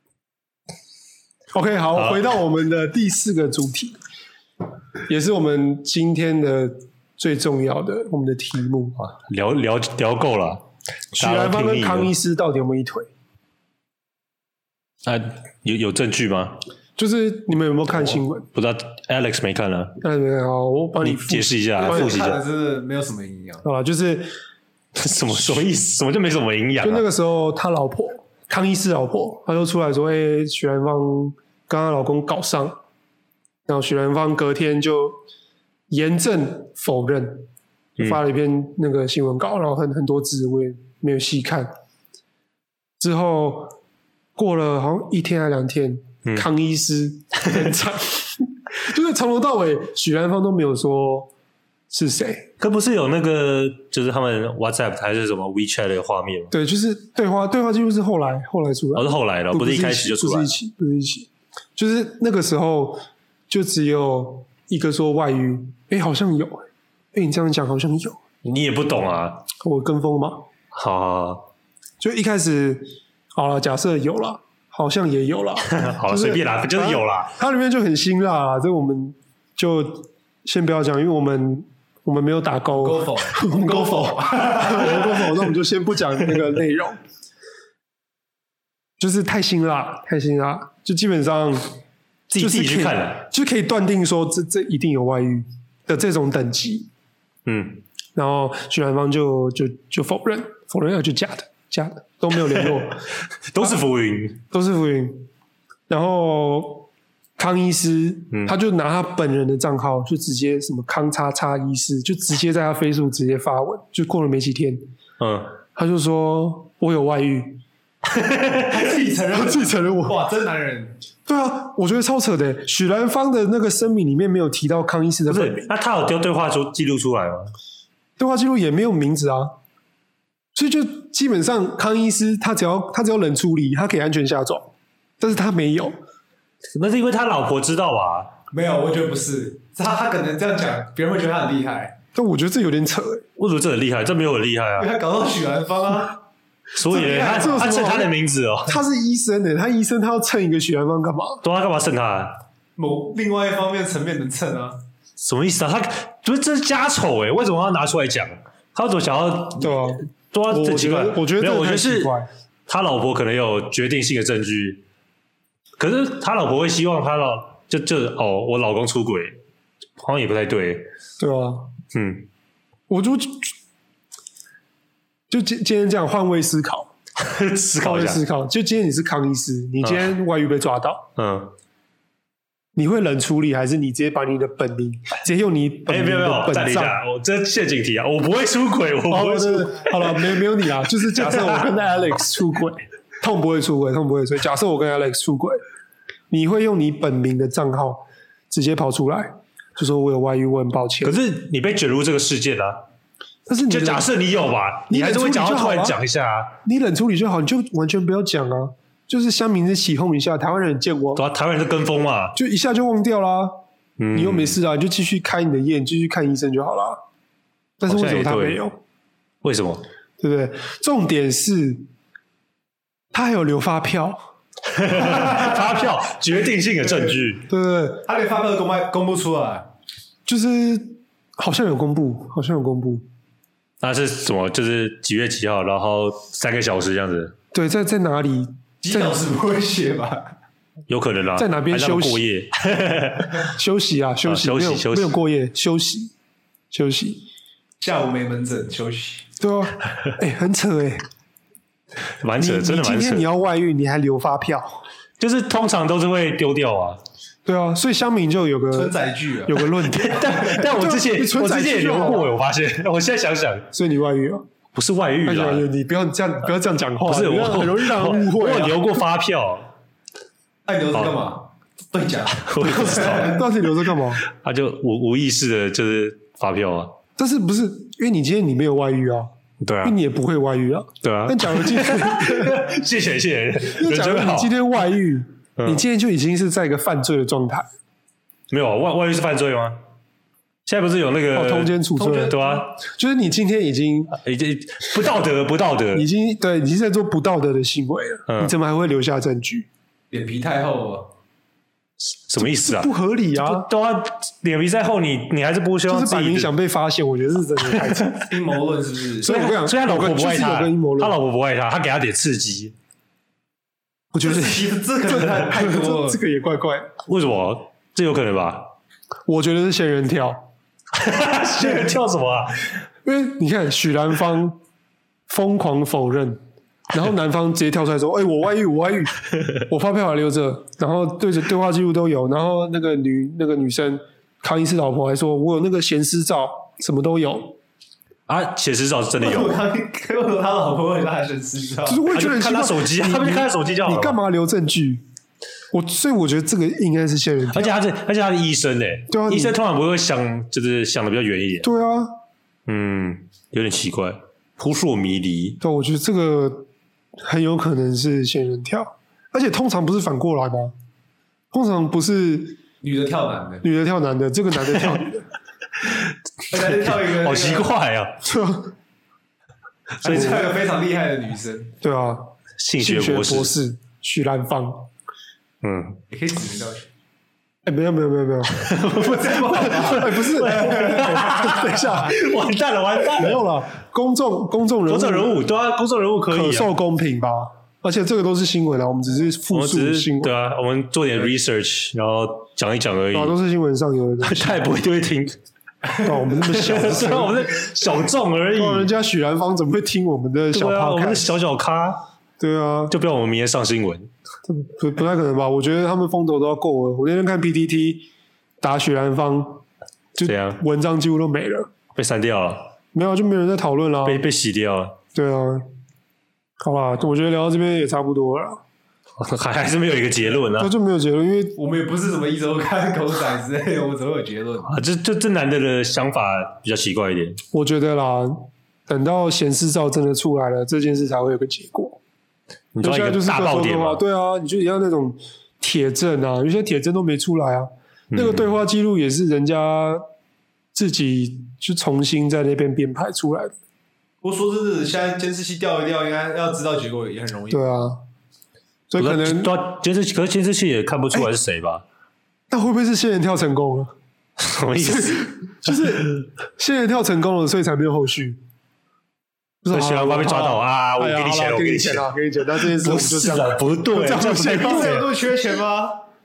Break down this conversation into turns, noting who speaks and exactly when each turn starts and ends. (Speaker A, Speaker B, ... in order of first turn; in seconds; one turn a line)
Speaker A: 1.5-4.0
Speaker B: 1.9-2.2
Speaker A: 5.1-9.0
Speaker B: 9.0-10.6
Speaker A: 11.1-13.1
Speaker B: 11.2-12.1
Speaker B: 15.0-16.6
Speaker A: 17.0-18.5
Speaker B: 18.1-20.0
Speaker A: 20.0-22.2
Speaker B: 21.0-22.4
Speaker C: 21.8-23.6
Speaker A: 23.6-24.3
Speaker B: 24.9-27.0
Speaker A: 26.8-32.8
Speaker A: 33.7-35.2
Speaker A: 35.9-41.7
Speaker A: 43.0-43.7
Speaker A: 44.4-51.3
Speaker A: 51.9-52.5
Speaker B: 52.6-56.5
Speaker A: 56.5-68.2
Speaker B: 58.9-60.5
Speaker B: 68.4-69.4
Speaker A: 69.6-70.5
Speaker B: 70.7-71.5
Speaker A: 72.0-87.0
Speaker B: 75.7-77.3
Speaker C: 82.8-85.3
Speaker A: 89.0-91.7
Speaker B: 92.3-93.2
Speaker A: 92.3-96.9
Speaker B: 97.5-97.8
Speaker A: 98.1-103.0
Speaker B: 102.5-102.8
Speaker B: 103.5-104.4
Speaker A: 104.5-105.3
Speaker A: 105.9-114.8
Speaker B: 115.2-115.5
Speaker A: 115.7-117.6
Speaker B: 118.2-118.5
Speaker C: 118.6-121.0
Speaker A: 119.3-120.2
Speaker A: 121.3-125.7
Speaker B: 125.3-127.5
Speaker A: 128.2-129.6
Speaker A: 130.5-136.0
Speaker B: 136.7-138.3
Speaker C: 138.5-141.9
Speaker A: 142.1-143.2
Speaker B: 143.4-144.9
Speaker C: 144.8-146.2
Speaker B: 146.8-148.8
Speaker C: 146.9-147.9
Speaker A: 146.9-151.4
Speaker B: 151.4-152.4
Speaker C: 152.8-154.8
Speaker B: 155.2-164.8
Speaker A: 159.6-162.3
Speaker B: 165.8-169.4
Speaker B: 170.0-170.9
Speaker A: 171.2-171.7
Speaker B: 171.9-172.3
Speaker A: 172.9-173.5
Speaker A: 175.3-176.9
Speaker B: 177.2-178.2
Speaker A: 177.8-181.1
Speaker B: 179.8-180.1
Speaker B: 181.2-181.5
Speaker A: 182.7-187.0
Speaker B: 185.9-190.3
Speaker A: 189.1-195.6
Speaker B: 191.1-191.7
Speaker A: 196.3-201.2
Speaker B: 201.0-202.8
Speaker A: 203.5-204.1
Speaker B: 203.7-206.5
Speaker A: 204.9-206.0
Speaker A: 206.6-211.2
Speaker B: 211.2-212.3
Speaker A: 212.3-213.6
Speaker B: 214.0-214.6
Speaker A: 214.1-217.0
Speaker A: 217.8-218.8
Speaker B: 217.9-218.6
Speaker B: 219.4-219.8
Speaker A: 220.2-221.8
Speaker A: 223.1-224.3
Speaker B: 224.7-227.4
Speaker C: 224.9-227.3
Speaker A: 227.5-228.0
Speaker C: 228.0-229.7
Speaker A: 230.2-233.1
Speaker B: 233.8-237.3
Speaker A: 237.5-239.2
Speaker C: 238.8-240.3
Speaker B: 240.9-243.5
Speaker A: 241.3-242.2
Speaker A: 243.4-246.1
Speaker B: 244.2-245.2
Speaker A: 246.7-247.2
Speaker C: 247.8-249.3
Speaker A: 249.4-251.0
Speaker B: 252.2-253.3
Speaker A: 252.4-254.8
Speaker B: 255.2-257.0
Speaker A: 257.4-262.3
Speaker C: 258.7-259.7
Speaker B: 259.8-263.7
Speaker C: 260.3-260.6
Speaker A: 263.7-264.4
Speaker B: 264.7-265.6
Speaker A: 265.2-269.0
Speaker B: 267.0-269.7
Speaker C: 270.6-273.4
Speaker B: 272.3-273.4
Speaker A: 272.8-274.2
Speaker B: 274.2-276.9
Speaker A: 277.2-279.3
Speaker B: 279.6-279.9
Speaker A: 279.8-282.8
Speaker B: 281.0-284.5
Speaker A: 283.7-287.7
Speaker B: 288.5-289.8
Speaker B: 290.6-292.7
Speaker A: 291.3-294.1
Speaker C: 292.0-292.6
Speaker B: 294.1-296.1
Speaker A: 295.9-299.7
Speaker B: 298.3-298.5
Speaker C: 300.1-301.1
Speaker B: 302.1-306.5
Speaker A: 302.4-303.7
Speaker A: 305.9-308.3
Speaker B: 307.6-308.2
Speaker C: 308.3-309.3
Speaker A: 309.2-311.2
Speaker B: 309.2-312.7
Speaker A: 314.1-316.9
Speaker C: 314.2-316.2
Speaker B: 317.1-318.7
Speaker A: 319.3-320.5
Speaker B: 320.9-322.8
Speaker A: 321.6-321.9
Speaker A: 323.0-324.6
Speaker A: 325.3-337.6
Speaker B: 338.3-339.6
Speaker C: 339.2-342.0
Speaker A: 341.9-345.0
Speaker B: 342.1-344.2
Speaker A: 345.7-347.8
Speaker B: 347.5-351.7
Speaker A: 349.1-349.5
Speaker A: 351.6-352.1
Speaker B: 352.6-355.6
Speaker A: 355.6-356.7
Speaker A: 357.2-360.7
Speaker A: 361.5-362.6
Speaker C: 362.8-363.6
Speaker A: 363.6-365.2
Speaker C: 366.5-367.7
Speaker B: 366.5-368.1
Speaker A: 368.2-368.7
Speaker C: 370.0-371.7
Speaker B: 370.0-370.5
Speaker A: 370.1-370.4
Speaker A: 371.8-374.9
Speaker B: 372.6-373.5
Speaker B: 375.6-376.0
Speaker C: 376.1-376.9
Speaker A: 377.6-378.7
Speaker B: 378.5-383.4
Speaker C: 378.9-381.6
Speaker A: 379.3-382.2
Speaker A: 383.1-385.3
Speaker B: 384.9-386.7
Speaker A: 386.3-390.3
Speaker B: 389.5-393.3
Speaker A: 393.1-394.6
Speaker B: 394.2-395.4
Speaker C: 396.0-397.2
Speaker A: 396.0-397.3
Speaker B: 396.4-398.9
Speaker A: 398.6-401.3
Speaker B: 400.5-402.0
Speaker A: 402.4-402.9
Speaker B: 402.9-404.1
Speaker A: 404.4-408.1
Speaker A: 408.6-409.6
Speaker A: 410.1-411.7
Speaker B: 410.2-410.6
Speaker B: 411.9-412.7
Speaker A: 412.9-414.2
Speaker B: 414.0-415.0
Speaker A: 415.1-415.6
Speaker A: 416.6-418.6
Speaker B: 419.2-420.7
Speaker A: 420.6-421.6
Speaker C: 421.6-424.8
Speaker B: 424.7-427.4
Speaker A: 427.5-432.0
Speaker B: 432.7-434.0
Speaker A: 432.8-440.0
Speaker B: 438.1-438.5
Speaker A: 440.7-443.5
Speaker C: 444.2-447.8
Speaker A: 447.5-448.0
Speaker A: 448.9-449.5
Speaker B: 449.0-451.8
Speaker A: 452.5-453.9
Speaker B: 454.4-455.9
Speaker A: 454.8-458.4
Speaker A: 459.6-465.0
Speaker B: 459.7-465.1
Speaker C: 464.3-466.0